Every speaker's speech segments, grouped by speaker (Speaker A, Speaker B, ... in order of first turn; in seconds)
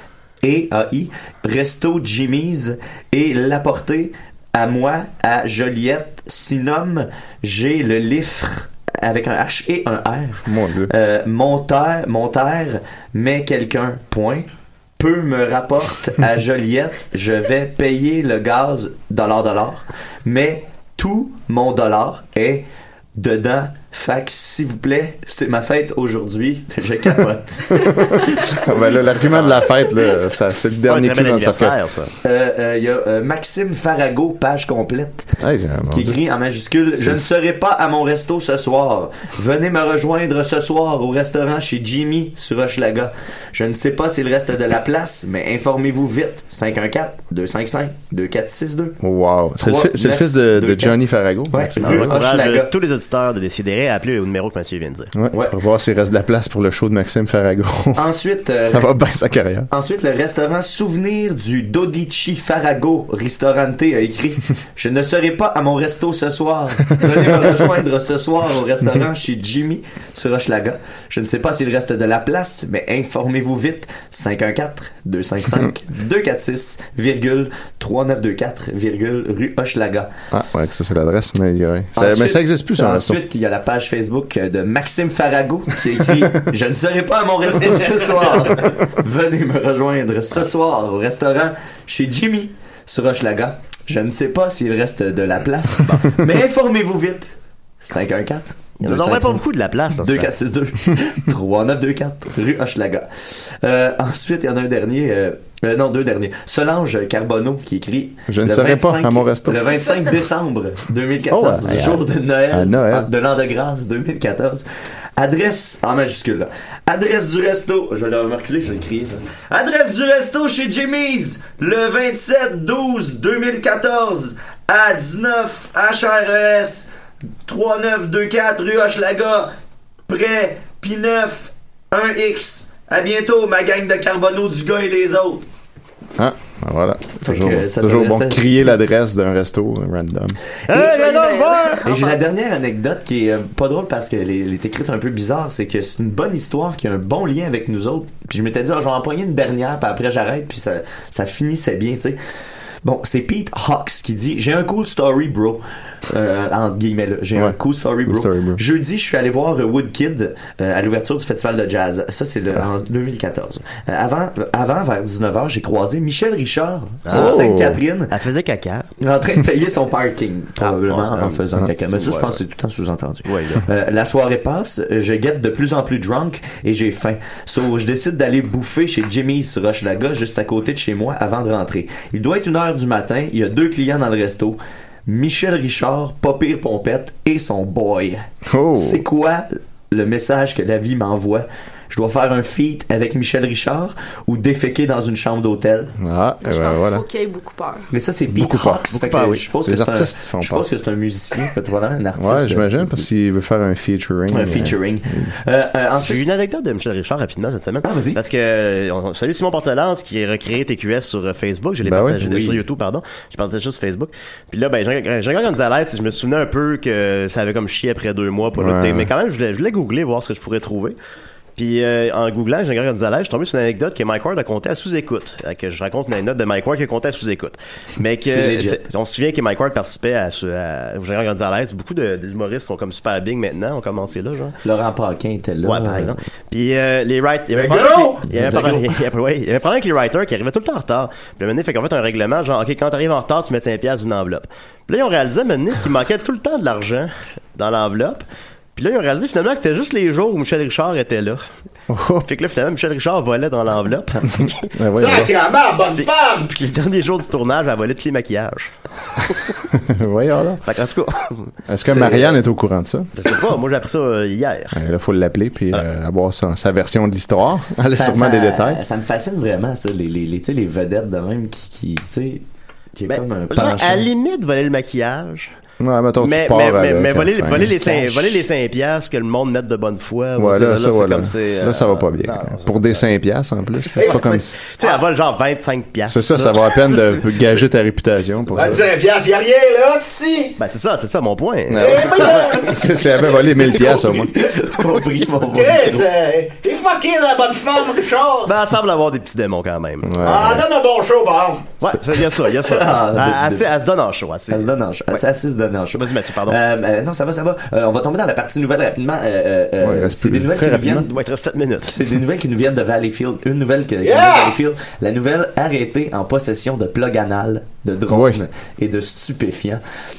Speaker A: 0.4-14.5, 15.0-22.6, 23.1-28.5, 32.2-35.3, 35.9-48.9, 49.6-51.0, 51.5-52.7, 57.9-58.9, 59.7-80.1, 81.9-99.4, 100.0-114.6, 115.2-126.9, 127.5-129.5, 130.1-135.4, 137.2-138.9, 141.8-152.2, 152.8-168.1, 169.0-195.9, 197.9-203.1, 204.3-206.2, 207.8-208.2, 212.2-212.6, 228.2-228.8, 234.6-236.2, 238.3-239.0, 261.8-262.4, 267.9-272.4, 272.9-274.1, 293.7-296.1, 302.6-303.7, 304.5-311.2, 311.8-319.8
Speaker B: 10.4-10.9, 28.4-31.8, 35.4-36.2, 49.0-52.1, 55.1-58.0, 58.6-59.7, 80.3-83.2, 108.3-109.7, 111.3-113.1, 136.2-140.4, 157.3-158.6, 167.1-167.8, 188.5-189.0, 196.0-197.0, 198.3-200.6, 202.2-205.3, 211.8-212.4, 218.6-219.1, 251.9-252.2, 254.7-255.3, 259.7-260.6, 261.7-263.1, 264.7-268.8, 275.8-278.4, 280.4-284.6, 286.1-288.8, 291.7-294.3, 300.0-300.6, 309.8-311.1, 318.1-318.4
Speaker C: 30.9-32.1, 51.8-55.1, 95.8-96.1, 98.8-100.3, 140.7-141.8, 167.1-167.4, 168.1-168.9, 170.6-172.4, 173.2-173.6, 206.0-221.0, 221.6-234.5, 235.6-248.2, 248.7-251.4, 252.2-254.7, 256.0-259.5, 260.6-261.5, 263.1-264.8, 273.1-275.5, 276.2-283.0, 283.9-287.6, 290.6-292.7, 298.4-300.2, 301.8-305.2, 305.9-306.6, 311.1-311.9
Speaker D: 109.5-110.1, 140.7-142.2, 196.4-197.9
Speaker E: 237.5-238.2, 254.9-256.5, 288.6-290.5, 291.8-292.8, 295.5-298.6, 300.2-301.7, 314.0-314.6